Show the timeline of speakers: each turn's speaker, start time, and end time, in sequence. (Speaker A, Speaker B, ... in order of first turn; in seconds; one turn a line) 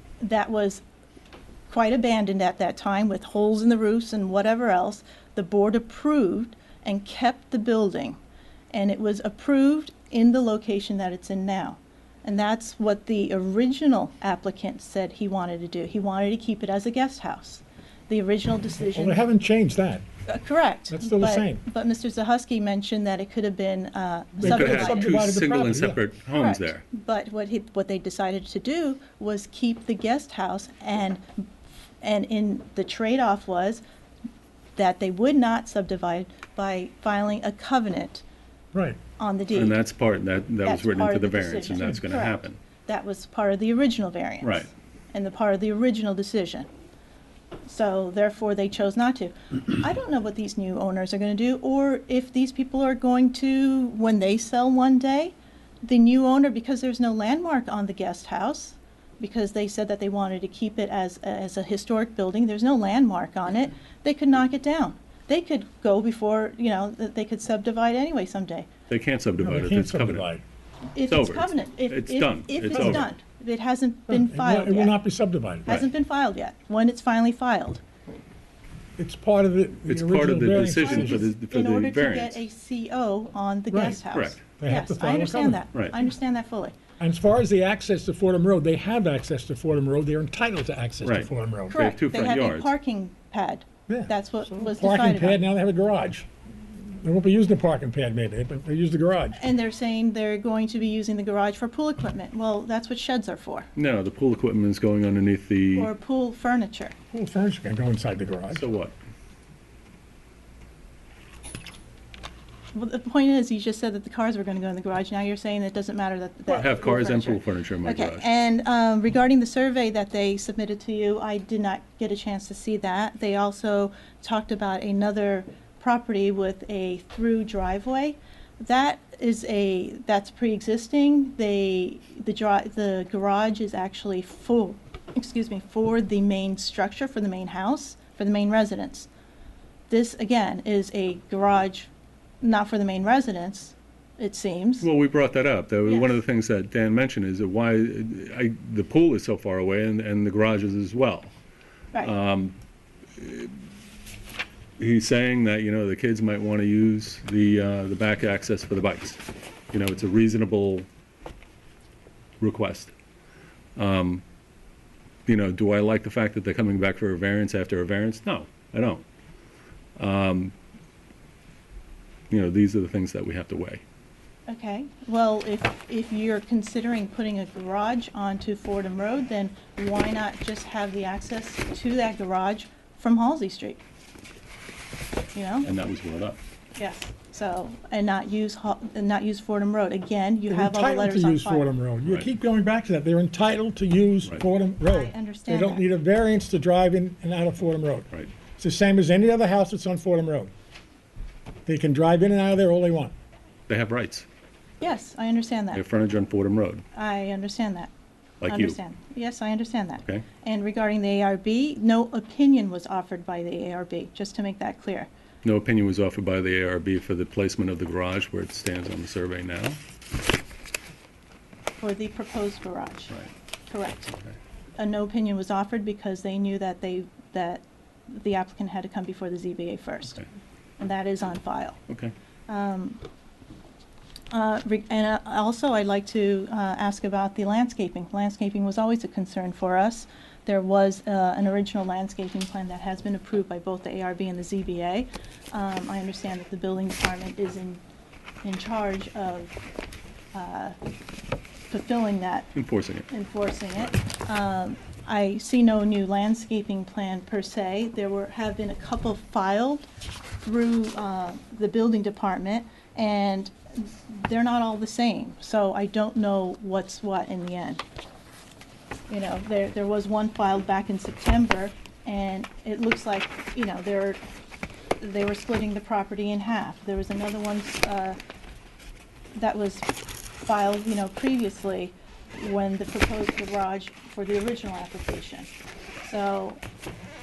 Speaker A: 0.2-0.8
Speaker A: 1.7-8.2
Speaker A: 8.7-19.2
Speaker B: 18.9-20.0
Speaker A: 20.3-25.2
Speaker B: 20.9-21.6
Speaker B: 24.4-26.0
Speaker C: 24.4-26.8
Speaker A: 26.4-31.2
Speaker A: 32.0-33.8
Speaker A: 34.8-38.2
Speaker B: 38.7-39.0
Speaker A: 39.2-39.8
Speaker C: 39.5-42.6
Speaker A: 40.6-46.7
Speaker C: 44.4-44.7
Speaker A: 47.7-68.7
Speaker C: 68.9-70.3
Speaker B: 69.4-70.4
Speaker A: 70.9-75.0
Speaker C: 71.1-73.0
Speaker B: 72.7-73.0
Speaker B: 74.1-75.8
Speaker A: 75.7-77.8
Speaker B: 79.0-81.3
Speaker C: 79.9-82.4
Speaker A: 80.8-86.7
Speaker B: 83.7-84.0
Speaker C: 84.1-84.4
Speaker B: 84.6-85.6
Speaker B: 87.0-91.8
Speaker C: 91.0-92.7
Speaker A: 91.7-95.4
Speaker B: 93.9-96.3
Speaker B: 96.8-99.4
Speaker A: 99.4-103.7
Speaker C: 103.8-105.9
Speaker A: 105.7-106.9
Speaker B: 107.1-108.6
Speaker C: 108.5-108.9
Speaker A: 112.7-139.1
Speaker C: 116.5-118.2
Speaker A: 139.9-141.9
Speaker A: 142.4-144.9
Speaker C: 144.8-151.3
Speaker C: 152.0-152.6
Speaker C: 153.2-153.5
Speaker C: 154.8-159.2
Speaker C: 159.7-160.9
Speaker C: 162.4-162.9
Speaker C: 163.8-164.2
Speaker C: 165.2-169.0
Speaker C: 170.0-170.5
Speaker C: 172.3-173.8
Speaker A: 174.5-183.8
Speaker A: 185.3-185.7
Speaker C: 185.7-186.4
Speaker A: 186.8-191.7
Speaker B: 190.5-200.5
Speaker C: 192.0-192.3
Speaker A: 194.8-195.8
Speaker B: 201.7-203.1
Speaker C: 203.7-204.2
Speaker A: 204.8-205.8
Speaker C: 205.7-206.8
Speaker A: 206.9-207.9
Speaker C: 208.4-208.8
Speaker A: 208.5-215.1
Speaker C: 215.4-219.8
Speaker A: 221.8-223.1
Speaker A: 223.7-224.2
Speaker A: 224.8-230.2
Speaker A: 230.8-231.8
Speaker C: 231.9-232.1
Speaker A: 232.5-233.0
Speaker A: 234.3-247.8
Speaker A: 248.4-249.6
Speaker A: 250.3-250.8
Speaker A: 251.7-252.5
Speaker C: 252.5-253.1
Speaker A: 253.1-259.9
Speaker A: 260.4-267.8
Speaker A: 269.1-274.2
Speaker A: 275.0-278.2
Speaker A: 279.3-279.9
Speaker A: 280.4-285.5
Speaker A: 286.0-286.6